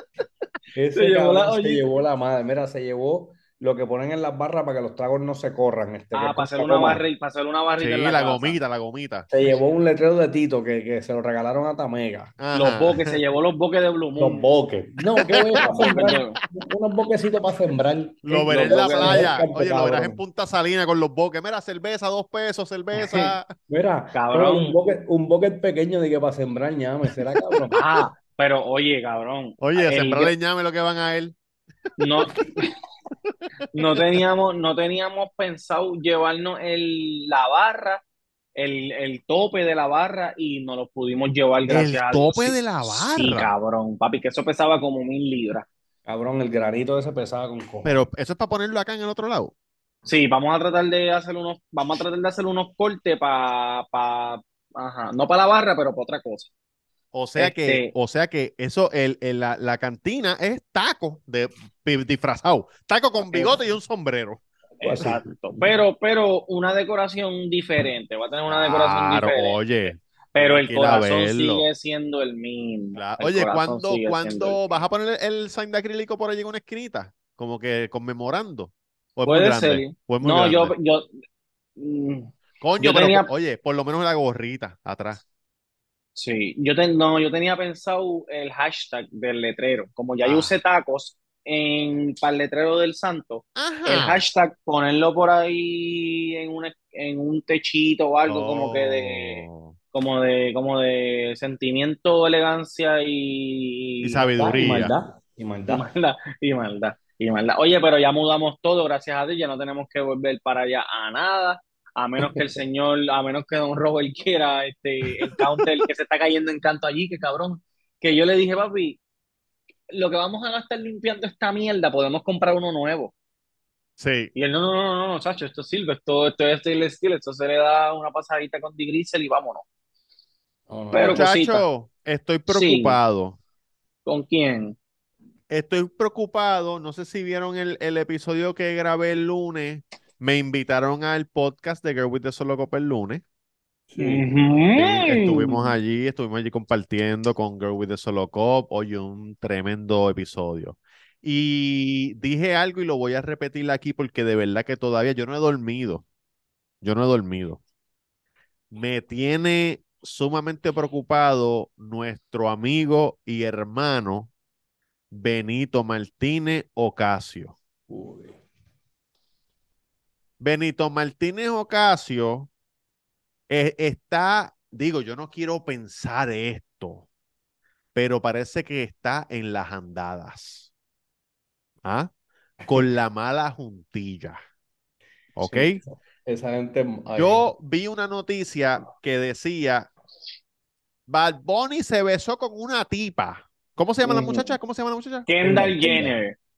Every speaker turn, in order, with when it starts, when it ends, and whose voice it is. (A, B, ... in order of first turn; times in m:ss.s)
0:00.7-0:07.0 A
0:00.9-0:01.9 B
0:06.1-0:08.6 B
0:07.8-0:09.3 C
0:09.3-0:12.3 A
0:12.4-0:13.2 C
0:12.5-0:14.5 B
0:14.2-0:20.2 A
0:15.2-0:15.6 C
0:15.6-0:16.4 B
0:18.2-0:23.5 C
0:18.4-0:19.4 B
0:23.7-0:27.8 A
0:24.1-0:24.8 B
0:27.7-0:30.3 B
0:29.6-0:31.3 C
0:32.0-0:32.7 B
0:33.7-0:38.0 B
0:38.6-0:45.7 B
0:41.7-0:43.5 C
0:46.0-0:47.9 A
0:47.8-0:49.5 C
0:50.0-0:56.5 B
0:57.1-1:04.4 C
0:57.4-0:57.9 B
1:03.3-1:03.6 B
1:04.8-1:09.6 B
1:04.8-1:05.7 A
1:08.5-1:11.6 C
1:10.3-1:14.6 B
1:12.9-1:20.7 C
1:19.2-1:21.1 B
1:21.8-1:23.3 B
1:22.6-1:25.2 C
1:26.2-1:44.2 B
1:30.2-1:30.6 C
1:33.6-1:34.2 C
1:38.2-1:39.8 C
1:44.0-1:44.9 C
1:44.3-1:45.8 A
1:45.7-1:59.0 B
1:59.9-2:03.1 B
2:04.0-2:04.3 C
2:04.3-2:09.6 B
2:10.7-2:11.3 A
2:10.9-2:11.6 B
2:11.0-2:13.4 C
2:12.5-2:13.0 B
2:14.0-2:14.8 B
2:15.5-2:23.2 C
2:23.9-2:24.2 A
2:24.0-2:25.7 B
2:24.8-2:36.0 C
2:36.8-2:37.6 C
2:38.7-2:44.3 C
2:45.1-2:47.6 C
2:47.9-2:48.4 A
2:50.4-2:52.5 C
2:53.5-2:57.1 C
2:57.9-3:00.7 C
3:01.8-3:02.1 C
3:02.7-3:04.4 C
3:05.4-3:05.8 C
3:05.4-3:07.5 A
3:07.2-3:09.9 C
3:11.1-3:15.3 C
3:14.0-3:14.5 B
3:15.3-3:16.4 B
3:15.4-3:16.2 A